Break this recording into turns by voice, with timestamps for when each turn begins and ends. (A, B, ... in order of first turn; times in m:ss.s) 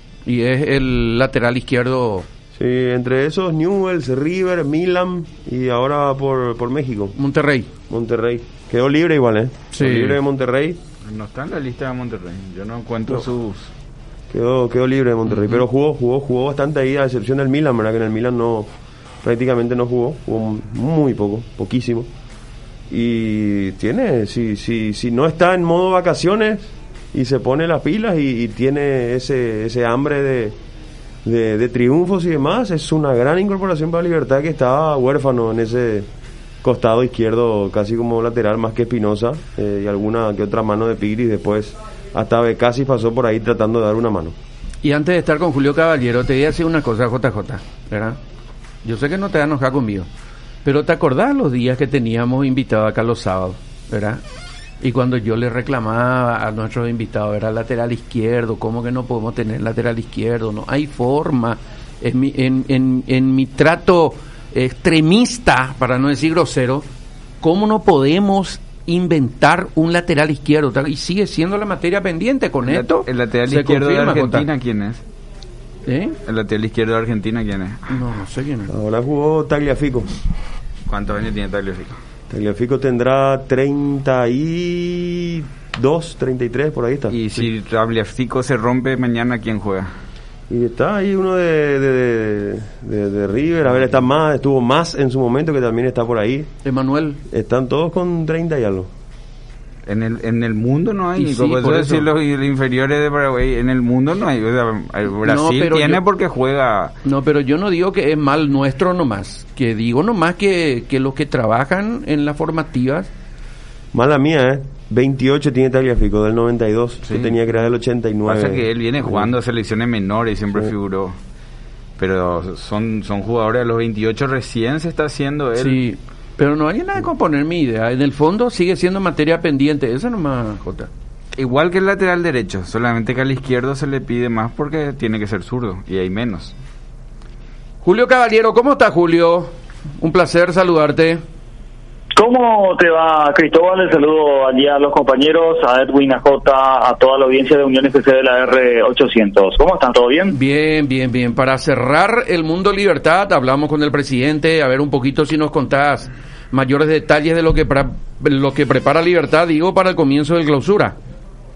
0:00.3-0:02.3 A
0:02.5-0:07.1 B
0:07.2-0:07.7 A
0:07.9-0:10.8 B
0:09.7-0:10.2 A
0:11.0-0:13.7 C
0:14.3-0:18.7 B
0:19.2-0:22.1 B
0:22.9-0:30.6 B
0:31.2-0:36.1 B
0:36.6-0:44.4 B
0:44.8-0:48.2 A
0:48.8-0:50.1 A
0:50.6-0:54.2 A
0:54.8-1:06.9 A
1:07.4-1:14.4 A
1:12.6-1:15.0 C
1:15.9-1:16.2 A
1:16.3-1:18.0 C
1:17.9-1:18.7 A
1:18.7-1:20.1 B
1:20.9-1:22.0 C
1:22.3-1:27.2 B
1:27.1-1:29.9 C
1:30.5-1:36.5 B
1:36.6-1:37.2 A
1:37.3-1:38.9 B
1:39.9-1:46.9 C
1:41.2-1:42.1 A
1:45.2-1:46.0 A
1:47.0-1:53.1 A
1:53.9-1:59.3 B
1:57.0-1:57.3 C
1:58.3-2:01.2 C
2:02.0-2:05.8 C
2:05.6-2:10.9 A
2:11.4-2:16.6 C
2:17.8-2:21.2 A
2:22.2-2:30.4 D
2:30.3-2:41.0 A